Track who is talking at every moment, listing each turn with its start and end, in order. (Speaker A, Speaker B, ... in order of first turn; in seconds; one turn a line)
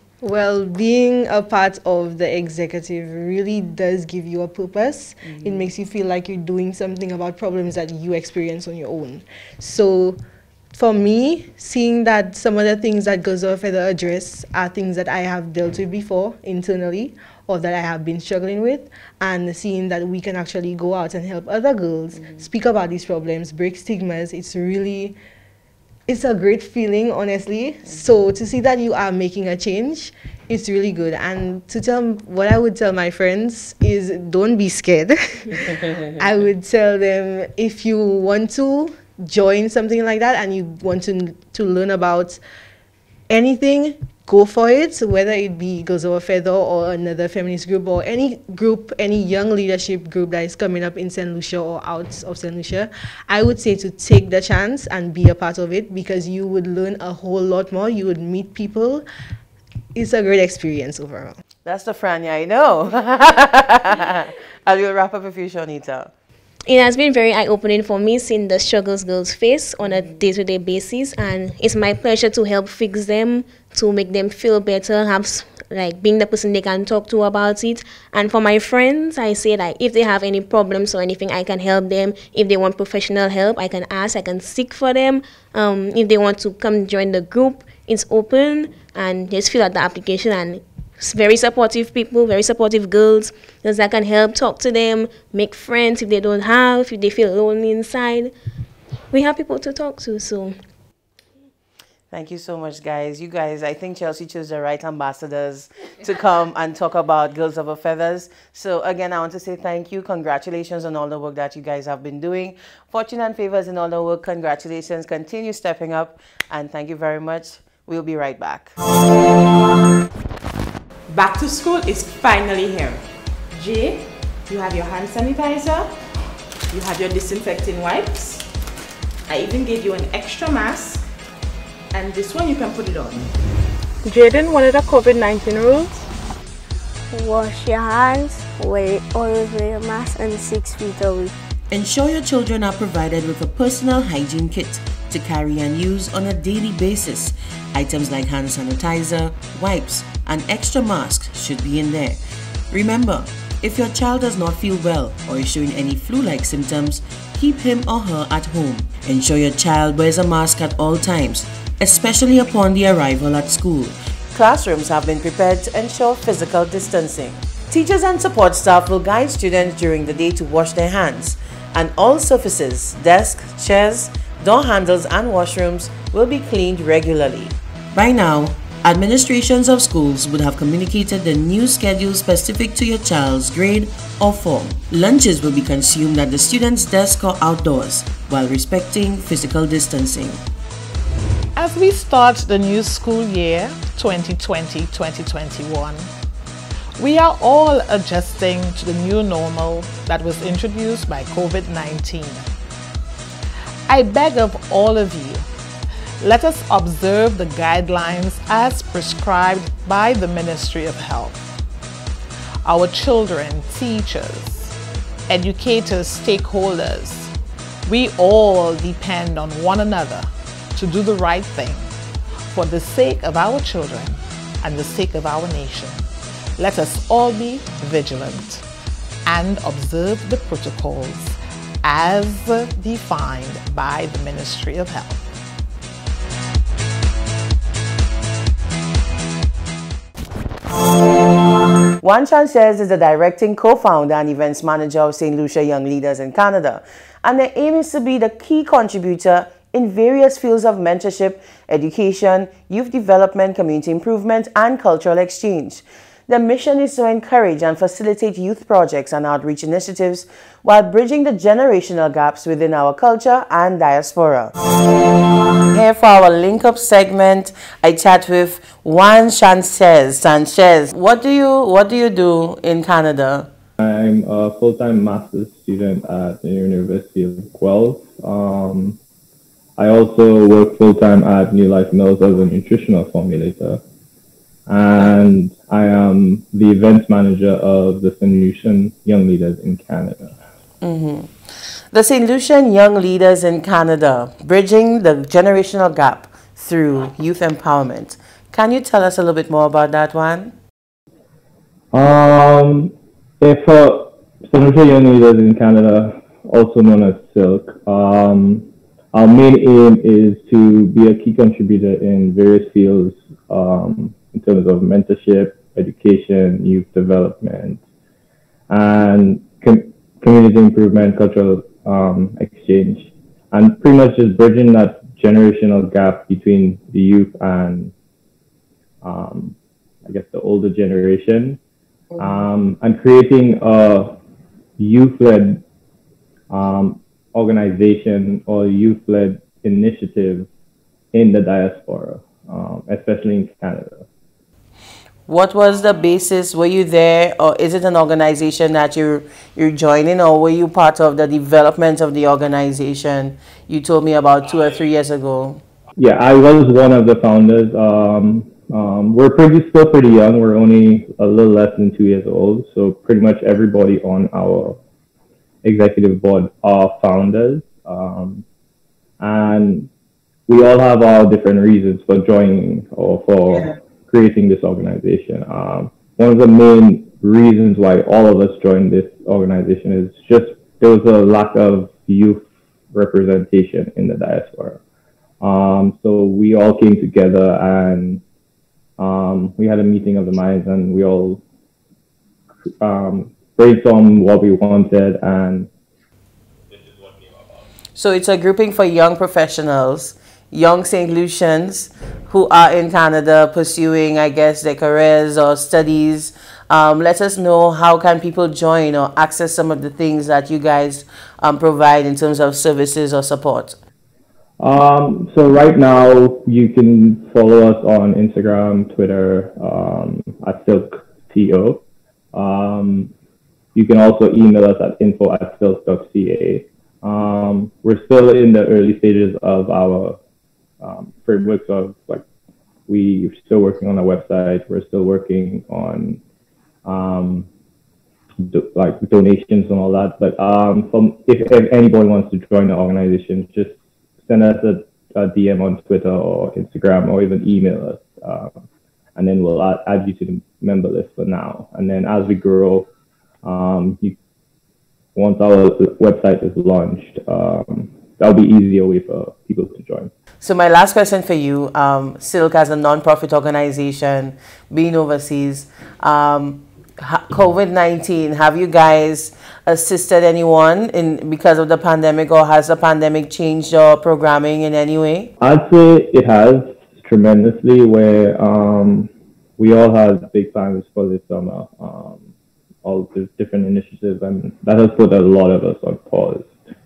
Speaker A: 0.2-10.2
Speaker B: 5.2-5.7
Speaker A: 10.7-25.1
Speaker B: 22.1-22.5
Speaker A: 26.1-42.4
Speaker A: 43.3-59.0
Speaker A: 59.9-61.4
Speaker B: 61.6-66.1
Speaker C: 66.7-98.3
Speaker B: 69.9-70.2
Speaker C: 99.1-100.6
Speaker B: 102.1-118.7
Speaker D: 121.1-126.1
Speaker D: 126.7-128.5
Speaker D: 129.3-131.1
Speaker D: 131.9-133.3
Speaker E: 134.0-136.0
Speaker F: 137.1-141.3
Speaker B: 141.7-152.2
Speaker B: 152.7-190.4
Speaker G: 191.5-196.1
Speaker G: 197.0-202.5
Speaker G: 203.9-205.5
Speaker G: 206.2-211.5
Speaker G: 212.6-214.8
Speaker G: 215.3-217.3
Speaker G: 217.9-228.7
Speaker G: 229.2-235.2
Speaker B: 242.0-264.5
Speaker B: 265.7-273.5
Speaker H: 273.8-279.0
Speaker H: 279.8-283.8
Speaker H: 284.7-290.4
Speaker B: 290.8-291.4
Speaker B: 291.9-300.5
Speaker H: 301.9-317.8
Speaker H: 318.7-327.9
Speaker H: 329.0-331.6
Speaker H: 332.2-334.2
Speaker H: 334.8-335.6
Speaker H: 336.5-340.5
Speaker H: 341.1-344.1
Speaker B: 345.3-355.6
Speaker H: 356.0-364.8
Speaker H: 365.6-368.4
Speaker H: 369.2-369.9
Speaker H: 370.5-384.8
Speaker H: 385.4-388.2
Speaker H: 389.0-391.4
Speaker H: 392.8-395.7
Speaker H: 396.9-397.4
Speaker B: 397.9-413.8
Speaker H: 414.6-423.1
Speaker H: 423.7-430.2
Speaker H: 430.8-432.2
Speaker H: 432.9-436.2
Speaker H: 436.8-437.5
Speaker H: 438.4-448.5
Speaker H: 449.1-452.9
Speaker H: 453.4-454.1
Speaker H: 455.1-460.1
Speaker B: 460.4-475.3
Speaker H: 475.4-482.2
Speaker H: 482.8-486.6